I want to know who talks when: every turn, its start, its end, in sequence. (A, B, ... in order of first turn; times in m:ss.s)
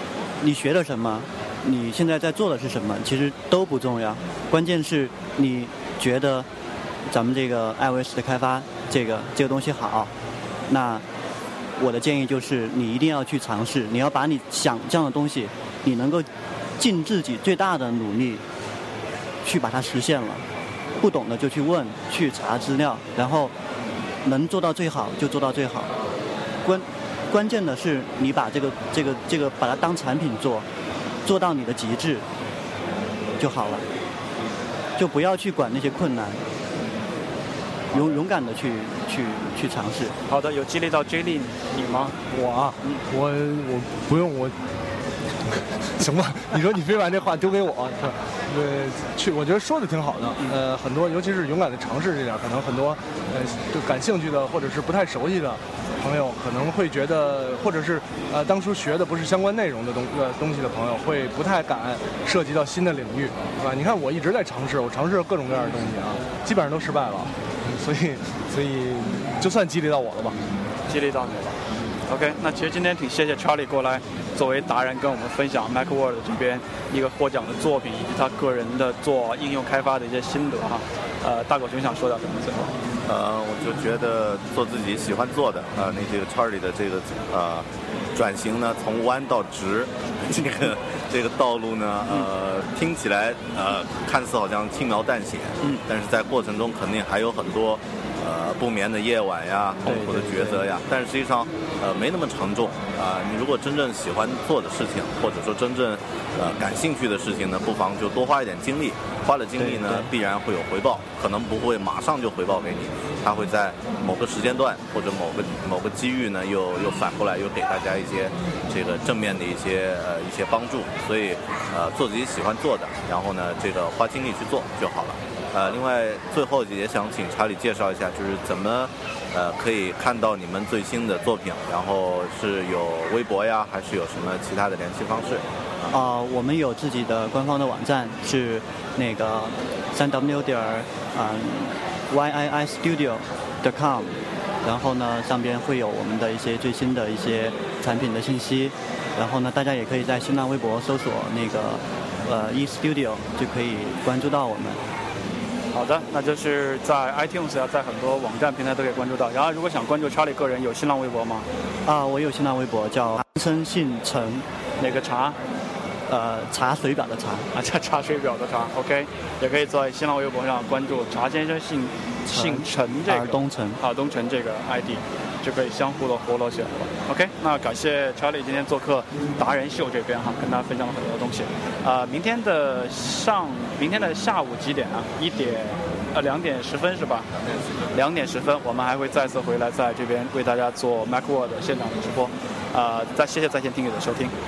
0:00.4-0:06.5 A
0:07.1-0:10.1 A
0:10.7-0:11.0 A
0:11.8-0:16.3 A
0:16.8-0:18.4 A
0:19.4-0:20.4 A
0:21.0-0:23.5 A
0:24.2-0:26.0 A
0:26.6-0:30.7 A
0:31.2-0:32.3 A
0:33.4-0:33.9 A
0:35.0-0:36.4 A
0:37.9-0:40.2 A
0:40.3-0:42.2 B
0:42.3-0:44.5 C
0:45.5-1:10.4 C
1:10.9-1:22.8 B
1:23.1-2:16.0 D
1:39.8-1:40.7 A
1:49.6-1:50.1 A
2:15.9-2:34.8 A
2:35.7-2:41.5 B
2:41.9-2:44.5 A
2:44.8-2:45.4 B
2:46.1-2:47.5 A
2:47.5-3:07.3 B
2:52.3-2:53.8 A
3:07.9-3:14.3 B